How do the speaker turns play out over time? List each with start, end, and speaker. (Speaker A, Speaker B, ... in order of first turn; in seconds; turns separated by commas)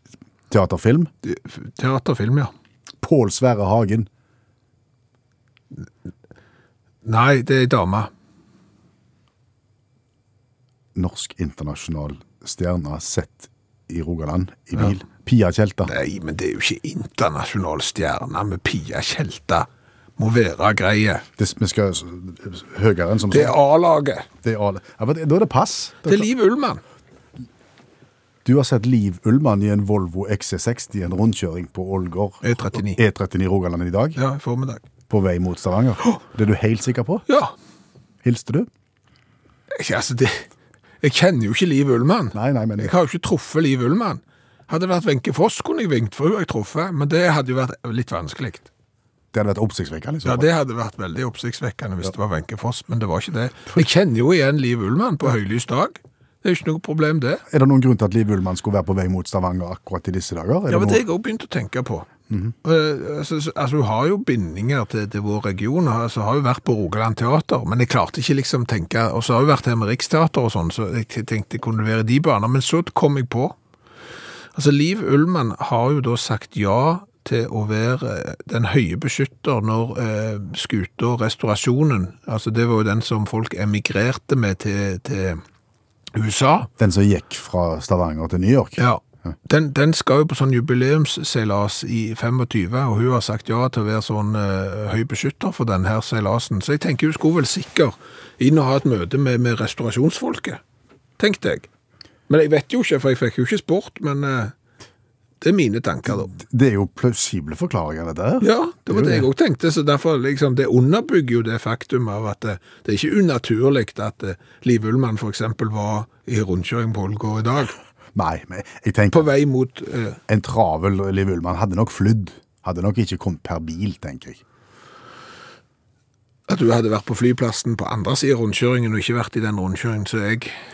Speaker A: 0.5-1.1, Speaker B: 1.2-2.5, Speaker A: 3.0-4.1, Speaker B: 7.0-8.1, Speaker A: 10.9-15.9, Speaker B: 15.9-19.7, Speaker B: 20.2-21.2, Speaker A: 21.4-23.6, Speaker B: 23.3-24.3, Speaker A: 24.4-26.3, Speaker B: 26.0-26.8, Speaker A: 28.4-34.2, Speaker B: 32.4-33.0, Speaker B: 34.1-34.8, Speaker A: 35.1-37.2, Speaker B: 37.3-37.5, Speaker A: 38.2-38.7, Speaker B: 39.7-40.5, Speaker B: 41.0-48.7, Speaker A: 42.3-42.9, Speaker A: 49.3-50.5, Speaker B: 50.2-57.4, Speaker A: 57.5-61.0, Speaker B: 60.7-62.1, Speaker A: 62.3-62.5, Speaker B: 62.6-73.5, Speaker B: 74.5-85.4, Speaker B: 86.1-86.7, Speaker A: 86.8-89.3, Speaker B: 88.8-100.6, Speaker B: 101.2-101.7, Speaker B: 102.3-104.5, Speaker B: 105.4-106.3, Speaker A: 106.1-109.3, Speaker B: 108.4-117.8, Speaker A: 118.1-119.3, Speaker B: 119.1-120.2, Speaker A: 120.3-124.4, Speaker B: 126.5-130.5